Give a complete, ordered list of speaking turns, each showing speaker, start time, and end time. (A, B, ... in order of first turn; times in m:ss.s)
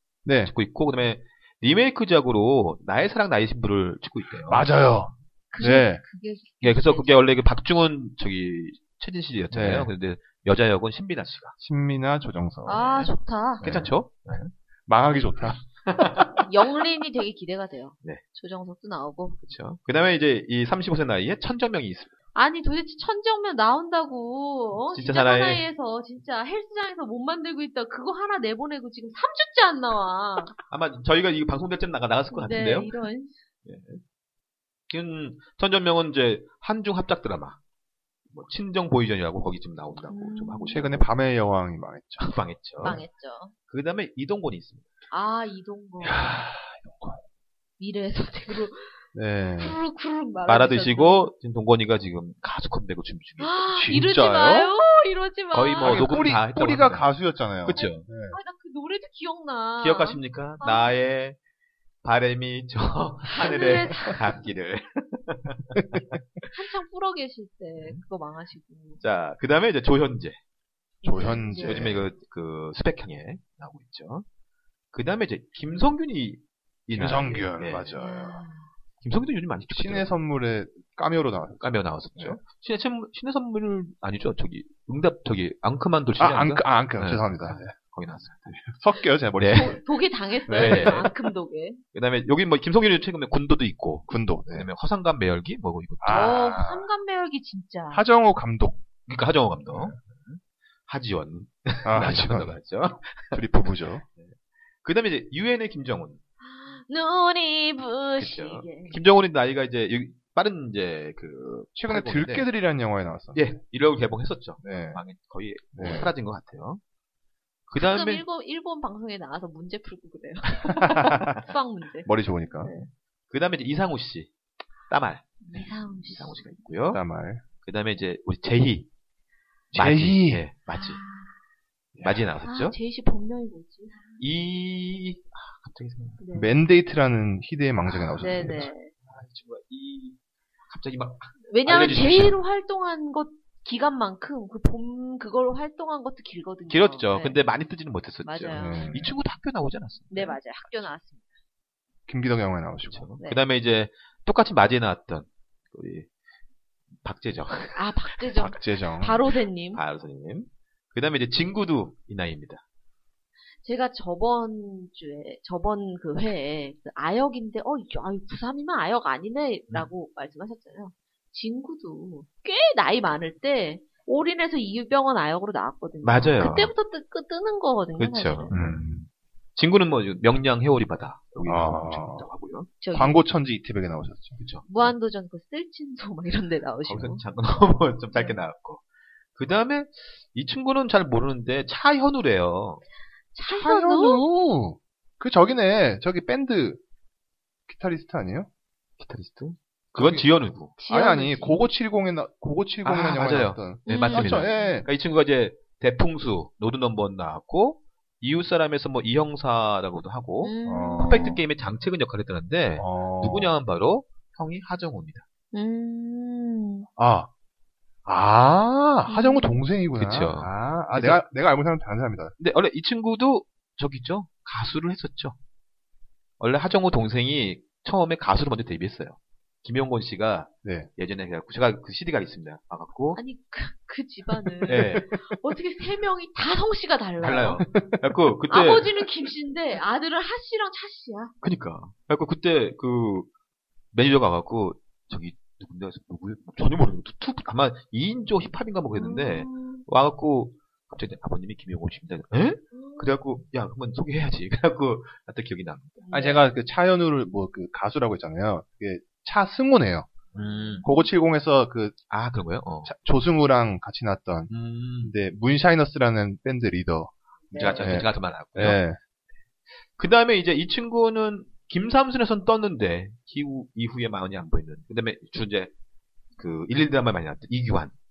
0:00.2-0:00.5 A
0:00.4-0:04.7 B
0:04.5-0:06.0 A
0:05.5-0:07.4 C
0:06.6-0:11.6 B
0:09.5-0:09.9 A
0:11.6-0:13.0 A
0:12.6-0:13.7 C
0:12.8-0:13.1 B
0:13.6-0:14.5 B
0:13.6-0:13.9 A
0:14.9-0:16.2 A
0:15.8-0:16.5 B
0:16.4-0:19.4 C
0:19.4-0:22.2 B
0:22.4-0:30.5 C
0:24.9-0:25.6 B
0:30.7-0:32.9 B
0:32.3-0:33.4 C
0:33.6-0:34.0 B
0:34.9-0:37.6 B
0:38.3-0:41.0 B
0:40.1-0:40.9 C
0:40.7-0:43.0 A
0:42.2-0:43.0 B
0:42.8-0:43.5 C
0:43.7-0:44.9 B
0:45.1-0:46.3 C
0:46.0-0:47.2 A
0:47.8-0:49.0 C
0:49.1-0:49.8 A
0:49.6-0:51.3 C
0:50.5-0:53.8 B
0:53.4-0:56.1 C
0:53.8-0:54.7 A
0:55.5-0:58.0 B
0:55.8-0:58.4 A
0:57.8-1:00.9 C
0:59.8-1:01.4 B
1:02.0-1:06.2 B
1:03.3-1:04.3 C
1:05.8-1:06.0 A
1:06.5-1:09.0 C
1:09.0-1:10.4 B
1:11.0-1:11.9 C
1:11.0-1:12.1 A
1:11.6-1:14.2 B
1:14.9-1:18.0 B
1:16.9-1:18.4 A
1:18.0-1:18.7 C
1:19.0-1:20.2 B
1:19.7-1:22.4 A
1:21.6-1:28.7 B
1:26.2-1:27.8 A
1:28.6-1:29.8 A
1:29.4-1:29.8 B
1:29.5-1:31.8 C
1:30.5-1:31.1 A
1:30.5-1:31.1 B
1:31.9-1:36.4 B
1:34.1-1:34.7 A
1:36.0-1:36.9 A
1:36.1-1:38.0 C
1:37.9-1:38.8 A
1:39.1-1:46.2 B
1:41.8-1:42.6 A
1:43.3-1:44.0 A
1:46.4-1:49.0 C
1:48.2-1:52.5 B
1:51.8-1:53.6 A
1:53.4-1:56.8 B
1:54.6-1:55.0 A
1:55.7-1:56.1 A
1:57.7-1:58.2 B
1:57.7-2:02.1 C
2:00.8-2:01.3 A
2:02.0-2:02.7 A
2:02.6-2:02.9 C
2:03.3-2:04.3 B
2:04.9-2:07.0 B
2:05.4-2:06.4 C
2:06.9-2:07.4 A
2:07.6-2:08.9 B
2:09.7-2:11.0 B
2:09.7-2:10.4 A
2:10.7-2:11.4 C
2:12.0-2:12.2 A
2:12.0-2:12.8 B
2:12.4-2:14.2 C
2:14.2-2:16.2 B
2:16.2-2:16.5 C
2:16.3-2:18.7 A
2:17.9-2:20.2 B
2:18.2-2:18.9 C
2:20.7-2:22.4 B
2:21.5-2:27.4 C
2:26.7-2:30.7 B
2:28.2-2:28.9 C
2:28.5-2:29.1 A
2:30.1-2:31.3 C
2:32.1-2:33.1 A
2:32.9-2:36.1 B
2:37.0-2:38.2 B
2:37.7-2:39.8 C
2:38.4-2:39.2 A
2:39.7-2:42.6 B
2:43.6-2:58.6 C
2:56.0-2:56.7 B
2:58.0-2:59.0 B
2:58.5-2:59.1 A
2:59.6-3:02.7 B
3:01.4-3:02.3 A
3:02.8-3:03.2 C
3:02.9-3:04.4 A
3:04.4-3:04.7 B
3:04.6-3:07.2 C
3:06.9-3:08.8 B
3:08.1-3:08.4 C
3:09.4-3:12.8 B
3:13.3-3:14.2 C
3:13.5-3:16.8 A
3:17.7-3:18.5 A
3:19.0-3:20.8 B
3:19.9-3:20.3 A
3:20.8-3:21.6 C
3:20.9-3:24.9 A
3:22.8-3:35.2 B
3:23.9-3:24.8 C
3:30.4-3:31.4 C
3:30.6-3:31.4 A
3:32.8-3:33.5 A
3:35.5-3:36.9 C
3:37.0-3:37.3 A
3:38.0-3:42.3 A
3:39.1-3:39.6 C
3:40.0-3:41.2 B
3:42.4-3:45.4 B
3:46.4-3:53.2 B
3:50.6-3:50.9 A
3:53.1-3:57.6 C
3:54.6-3:55.1 A
3:54.6-3:55.1 B
3:57.2-3:59.1 B
3:57.7-3:58.0 A
3:58.5-4:01.3 C
4:01.4-4:03.3 B
4:03.9-4:16.0 B
4:09.0-4:09.8 C
4:12.7-4:13.1 C
4:16.0-4:16.5 C
4:16.1-4:20.1 A
4:20.4-4:20.8 B
4:20.4-4:21.1 C
4:20.8-4:22.0 A
4:22.1-4:22.9 B
4:22.8-4:24.5 A
4:24.5-4:25.1 B
4:25.0-4:29.0 A
4:27.5-4:27.9 C
4:27.5-4:28.8 B
4:30.0-4:35.7 B
4:36.4-4:37.9 B